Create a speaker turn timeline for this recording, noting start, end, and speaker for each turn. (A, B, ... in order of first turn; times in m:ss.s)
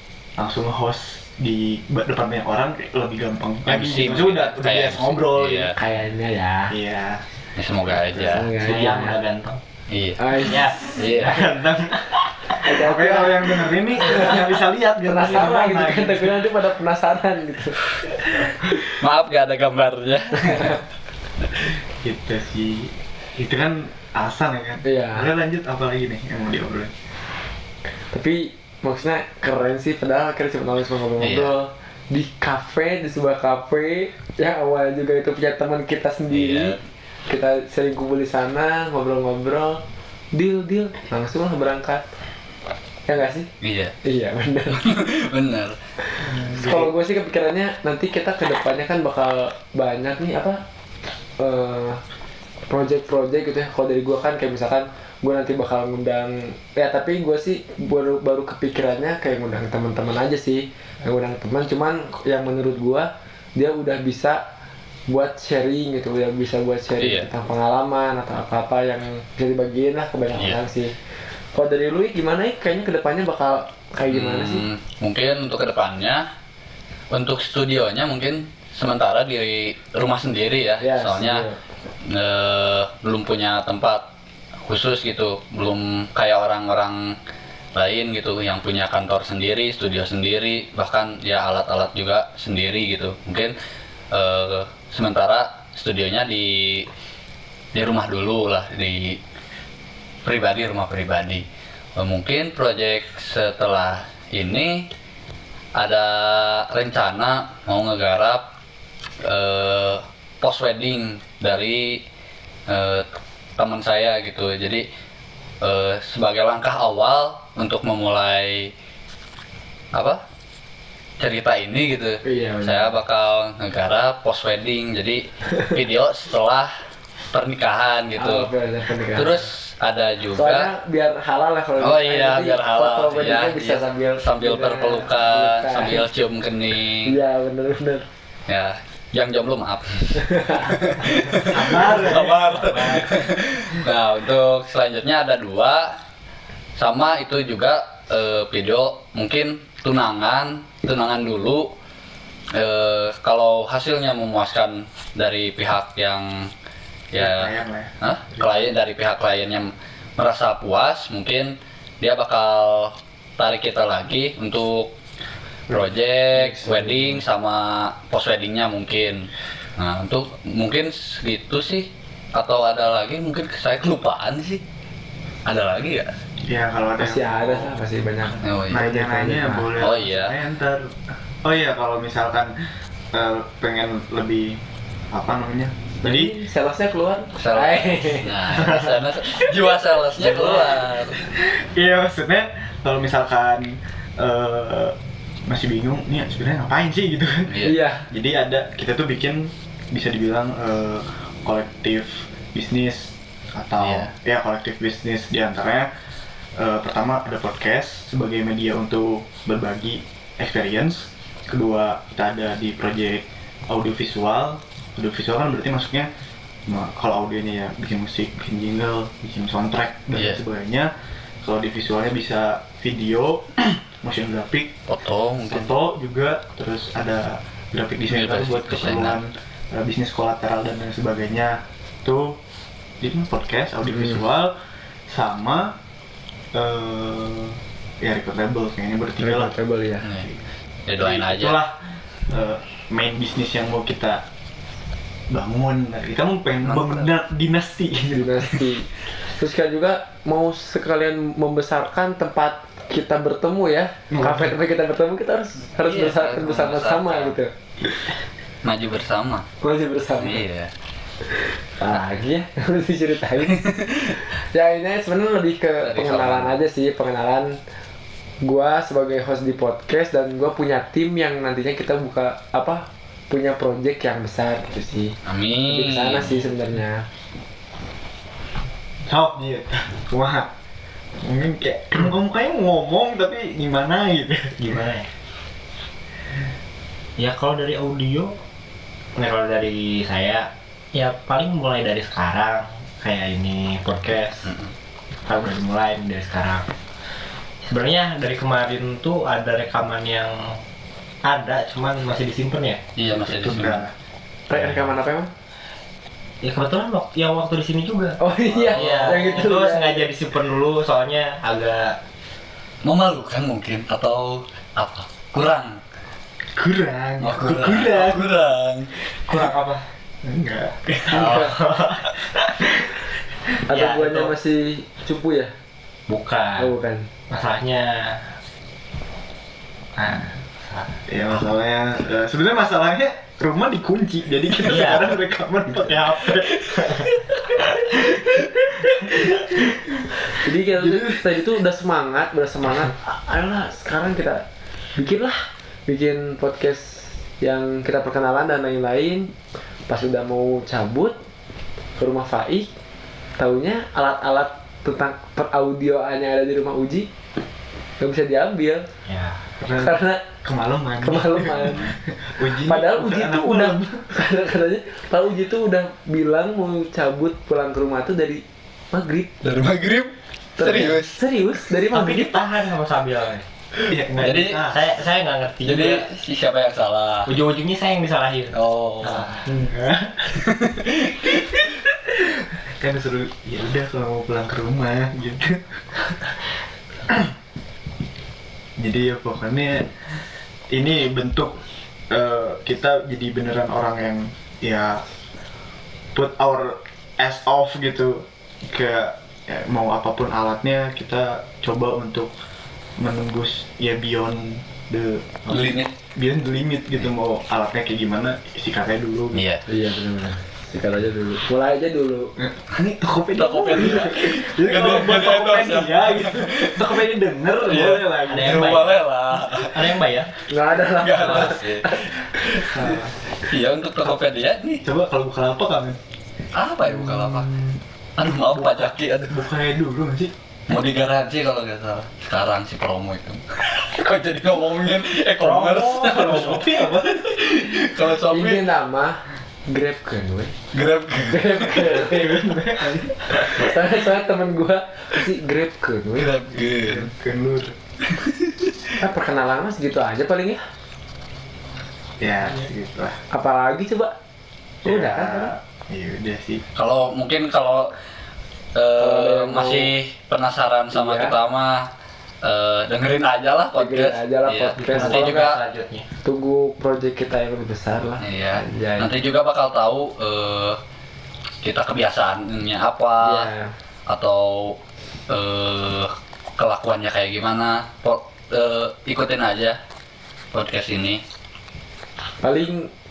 0:00.4-0:05.7 A
0:03.7-0:05.8 B
0:05.8-0:06.8 C
0:06.7-0:07.2 A
0:07.6-0:08.5 B
0:07.9-0:08.4 A
0:08.3-0:09.2 C
0:08.5-0:09.6 D
0:09.9-0:11.5 B
0:10.2-0:11.0 C
0:10.4-0:12.6 D
0:12.6-0:14.4 C
0:12.7-0:16.5 A
0:15.0-0:17.8 C
0:19.0-0:20.8 B
0:20.4-0:20.8 C
0:22.0-0:26.9 A
0:24.8-0:25.3 C
0:28.1-0:36.8 C
0:31.2-0:31.5 B
0:36.3-0:36.8 B
0:37.3-0:39.8 C
0:40.3-0:42.0 C
0:43.1-0:43.5 C
0:43.6-0:44.0 B
0:44.0-0:44.9 C
0:44.7-0:45.8 B
0:46.2-0:50.6 C
0:46.2-0:46.9 A
0:51.4-0:52.0 C
0:52.7-1:04.4 C
1:05.1-1:11.0 C
1:07.0-1:07.3 B
1:11.5-1:14.6 C
1:14.1-1:16.2 B
1:17.1-1:21.4 B
1:20.8-1:21.6 C
1:22.0-1:24.1 B
1:24.7-1:27.2 B
1:27.8-1:33.5 B
1:34.1-1:36.9 B
1:37.7-1:39.2 B
1:40.2-1:41.4 B
1:42.0-1:44.9 B
1:45.8-1:48.5 B
1:49.2-1:52.0 B
1:52.7-1:53.1 B
1:53.6-1:54.8 B
1:55.6-1:58.7 B
1:59.9-2:00.2 B
2:01.2-2:06.7 B
2:02.2-2:03.0 C
2:07.3-2:08.5 B
2:08.2-2:09.5 C
2:09.2-2:10.7 B
2:10.3-2:16.1 C
2:11.8-2:17.2 B
2:17.1-2:18.0 C
2:18.5-2:26.0 B
2:20.2-2:20.7 C
2:21.4-2:23.0 A
2:22.0-2:23.1 D
2:26.8-2:31.7 B
2:32.5-2:36.5 B
2:37.1-2:44.9 B
2:37.2-2:38.7 A
2:45.7-2:54.6 B
2:45.7-2:47.2 C
2:55.5-2:56.1 B
2:56.4-3:02.5 A
2:57.0-2:59.7 C
2:58.4-2:58.8 B
2:59.8-3:00.4 B
3:03.1-3:04.6 A
3:05.1-3:06.3 A
3:06.0-3:08.8 C
3:07.4-3:11.2 B
3:08.6-3:15.0 A
3:15.5-3:25.9 A
3:17.5-3:17.8 B
3:17.6-3:18.1 C
3:23.8-3:24.1 B
3:26.6-3:36.1 A
3:36.7-3:40.9 A
3:40.2-3:40.4 B
3:41.4-3:44.8 A
3:44.9-3:45.7 B
3:45.4-3:52.4 A
3:48.1-3:49.2 B
3:53.0-3:54.6 A
3:53.9-3:54.2 C
3:55.1-3:55.8 A
3:56.5-3:59.6 A
3:59.2-4:00.1 C
4:00.0-4:00.3 B
4:00.2-4:00.4 A
4:00.9-4:01.6 B
4:01.0-4:04.2 A
4:05.3-4:08.5 A
4:06.6-4:07.1 B
4:08.1-4:17.5 C
4:14.1-4:14.6 A
4:15.8-4:17.4 B
4:18.6-4:19.5 B
4:19.6-4:20.4 C
4:20.2-4:20.7 B
4:21.8-4:23.6 C
4:23.5-4:24.1 B
4:24.5-4:27.6 C
4:25.8-4:26.6 B
4:28.4-4:37.1 C
4:35.2-4:36.4 B
4:39.1-4:40.5 A
4:41.2-4:44.8 A
4:44.7-4:45.1 D
4:47.2-4:48.3 D
4:49.2-4:54.5 D
4:54.4-4:54.7 B
4:55.3-4:56.7 D
4:57.6-5:00.6 D
5:01.2-5:02.8 D
5:03.0-5:03.8 B
5:03.2-5:03.9 A
5:04.5-5:05.3 C
5:06.4-5:12.0 D
5:08.2-5:10.1 C
5:08.4-5:09.5 B
5:12.8-5:15.8 B
5:16.6-5:18.3 A
5:17.2-5:18.9 B
5:19.3-5:19.8 D
5:20.2-5:21.4 A
5:20.9-5:22.5 D
5:21.1-5:21.5 C
5:22.6-5:22.9 A
5:23.7-5:25.5 C
5:23.7-5:24.3 D
5:26.1-5:26.7 D
5:26.6-5:27.1 C
5:27.3-5:28.2 D
5:30.0-5:30.4 A
5:30.6-5:31.0 D
5:31.1-5:40.0 A
5:34.6-5:36.0 D
5:36.7-5:37.1 D
5:38.4-5:38.6 B
5:40.4-5:44.4 C
5:40.8-5:41.2 A
5:45.0-5:49.3 C
5:49.9-5:51.2 C
5:52.0-5:52.7 C
5:53.4-5:57.1 C
5:58.0-5:58.8 C
5:59.1-5:59.4 D
5:59.6-6:04.1 A
5:59.7-6:00.2 C
6:01.0-6:01.9 C
6:02.6-6:09.3 C
6:09.4-6:11.2 B
6:10.6-6:12.4 C
6:11.9-6:13.5 D
6:13.9-6:14.8 A
6:14.1-6:14.6 B
6:14.6-6:16.1 D
6:15.6-6:17.3 B
6:17.3-6:19.5 D
6:18.5-6:19.3 B
6:19.5-6:20.4 A
6:20.4-6:21.8 B
6:22.2-6:26.3 A
6:27.1-6:27.3 A
6:28.8-6:29.9 A
6:30.7-6:35.0 A
6:36.1-6:42.3 A
6:43.0-6:49.4 A
6:45.5-6:45.9 B
6:49.3-6:49.6 B
6:49.7-6:52.3 C
6:52.4-6:58.8 A
6:53.4-6:57.0 B
6:57.6-7:00.0 B
6:58.3-7:00.3 D
7:00.5-7:02.7 C
7:00.9-7:04.8 B
7:02.7-7:03.1 A
7:04.8-7:06.0 A
7:06.6-7:07.5 B
7:06.9-7:07.8 A
7:08.2-7:09.4 B
7:08.5-7:10.3 A
7:10.7-7:18.7 B
7:15.4-7:17.4 A
7:15.6-7:16.6 D
7:18.3-7:19.2 C
7:19.7-7:20.5 C
7:20.7-7:22.0 B
7:21.3-7:22.4 C
7:21.8-7:23.5 A
7:23.3-7:26.3 C
7:26.2-7:27.1 B
7:26.8-7:27.8 A
7:28.1-7:28.7 B
7:29.0-7:30.6 C
7:32.2-7:33.2 A
7:33.3-7:34.1 C
7:34.8-7:35.5 C
7:34.8-7:36.6 A
7:36.8-7:37.9 B
7:38.8-7:41.9 B
7:39.0-7:39.9 C
7:40.9-7:41.4 C
7:42.4-7:45.6 B
7:43.8-7:45.5 C
7:44.8-7:46.1 D
7:46.2-7:49.1 C
7:48.2-7:50.8 B
7:51.6-7:53.5 B
7:53.2-7:53.7 C
7:54.1-7:54.8 B
7:55.3-7:59.8 B
8:00.5-8:01.2 B
8:02.4-8:02.9 C